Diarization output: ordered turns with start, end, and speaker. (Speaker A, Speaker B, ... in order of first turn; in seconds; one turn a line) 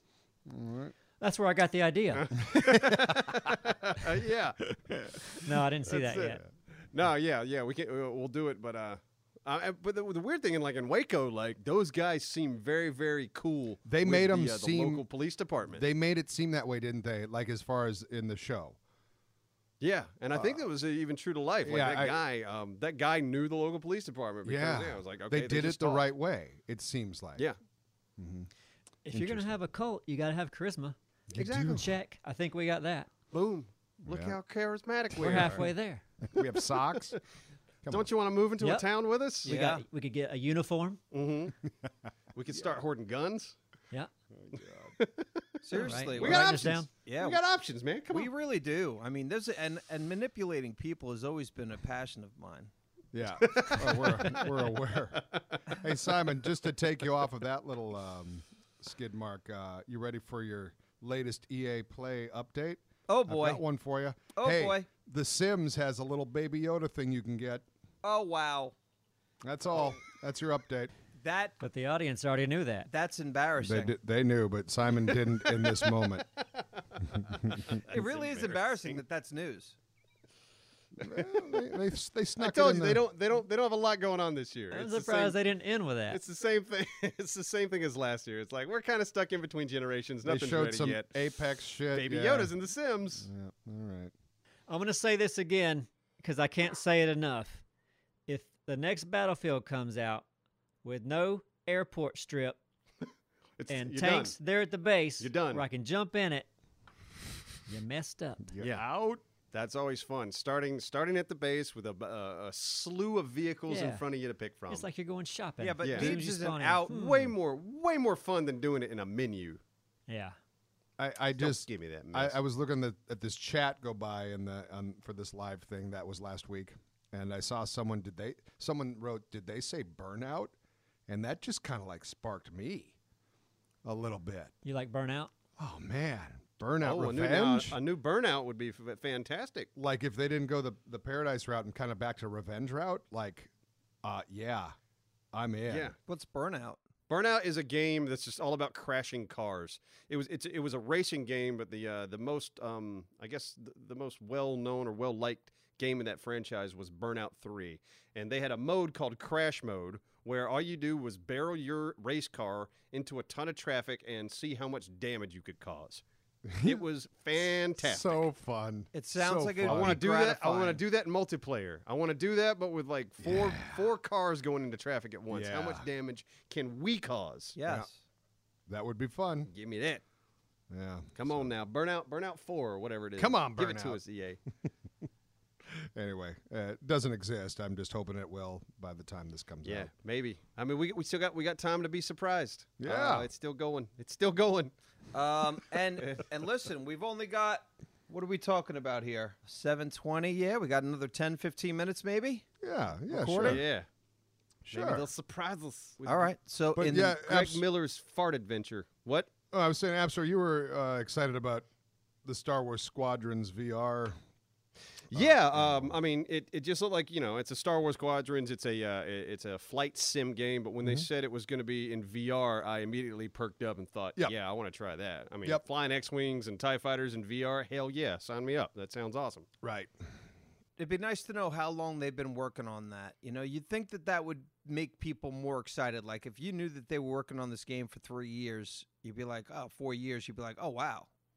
Speaker A: 0.5-0.9
Speaker B: 1.2-2.5
Speaker C: 2.1-4.6
Speaker A: 2.5-3.5
Speaker A: 4.9-5.2
Speaker B: 5.3-6.4
Speaker C: 5.8-15.8
Speaker A: 13.8-15.0
Speaker A: 15.7-18.8
Speaker C: 19.8-26.1
Speaker A: 20.3-20.6
Speaker A: 21.6-22.2
Speaker A: 24.4-27.4
Speaker A: 28.2-28.5
Speaker B: 29.0-33.1
Speaker A: 29.1-29.6
Speaker A: 31.3-31.9
Speaker C: 33.3-35.7
Speaker A: 34.0-34.4
Speaker A: 35.1-35.7
Speaker B: 35.2-36.0
Speaker A: 36.2-37.2
Speaker C: 36.4-37.2
Speaker A: 37.8-38.1
Speaker C: 37.9-39.5
Speaker B: 38.6-38.9
Speaker B: 39.4-41.0
Speaker D: 39.4-39.8
Speaker C: 41.1-41.6
Speaker C: 42.3-43.5
Speaker A: 44.3-44.9
Speaker C: 45.0-48.3
Speaker D: 45.6-47.4
Speaker B: 45.7-46.9
Speaker D: 48.1-52.7
Speaker A: 53.1-67.6
Speaker C: 53.4-54.7
Speaker C: 55.2-55.6
Speaker D: 63.1-63.6
Speaker D: 64.3-64.9
Speaker D: 68.0-68.8
Speaker A: 69.4-70.9
Speaker D: 71.2-71.6
Speaker B: 71.6-72.9
Speaker D: 72.9-73.9
Speaker A: 73.6-76.2
Speaker C: 75.4-79.0
Speaker A: 77.0-77.8
Speaker D: 77.8-79.8
Speaker A: 81.0-83.0
Speaker C: 81.0-81.6
Speaker C: 82.4-85.4
Speaker B: 84.7-86.2
Speaker C: 86.1-91.3
Speaker A: 90.2-92.5
Speaker C: 91.9-93.3
Speaker A: 93.2-94.1
Speaker B: 94.7-97.6
Speaker B: 98.3-100.2
Speaker B: 100.8-102.6
Speaker C: 103.6-104.3
Speaker B: 103.7-106.5
Speaker C: 105.2-105.6
Speaker B: 107.7-108.6
Speaker A: 108.5-109.2
Speaker C: 108.6-108.9
Speaker C: 109.5-114.9
Speaker B: 113.7-114.0
Speaker B: 114.7-117.3
Speaker D: 115.6-117.0
Speaker C: 115.8-116.2
Speaker C: 116.9-119.6
Speaker B: 120.1-120.4
Speaker A: 121.0-130.5
Speaker C: 121.3-122.4
Speaker A: 131.1-132.9
Speaker A: 133.8-134.5
Speaker B: 134.6-135.3
Speaker A: 135.6-137.8
Speaker C: 136.8-139.7
Speaker A: 139.8-143.5
Speaker A: 144.0-144.8
Speaker A: 145.3-145.9
Speaker C: 145.7-146.0
Speaker D: 146.1-146.8
Speaker C: 147.1-166.0
Speaker A: 166.4-166.8
Speaker C: 166.6-168.2
Speaker A: 167.8-170.0
Speaker D: 168.9-170.8
Speaker C: 169.6-177.6
Speaker A: 173.2-173.9
Speaker A: 175.3-175.9
Speaker D: 177.6-178.0
Speaker A: 178.7-179.5
Speaker C: 179.5-180.0
Speaker A: 180.7-181.5
Speaker C: 181.1-184.4
Speaker A: 183.2-184.0
Speaker A: 185.7-189.9
Speaker C: 189.6-194.7
Speaker A: 192.8-193.3
Speaker D: 195.1-202.4
Speaker C: 196.0-196.2
Speaker A: 202.6-203.6
Speaker D: 203.1-203.6
Speaker C: 203.4-203.8
Speaker A: 204.6-205.1
Speaker C: 204.7-206.3
Speaker D: 206.0-207.2
Speaker A: 206.8-207.6
Speaker C: 207.0-209.3
Speaker A: 209.5-211.7
Speaker A: 212.2-214.2
Speaker C: 215.1-229.5
Speaker A: 215.1-215.9
Speaker A: 229.6-229.9
Speaker D: 230.8-241.1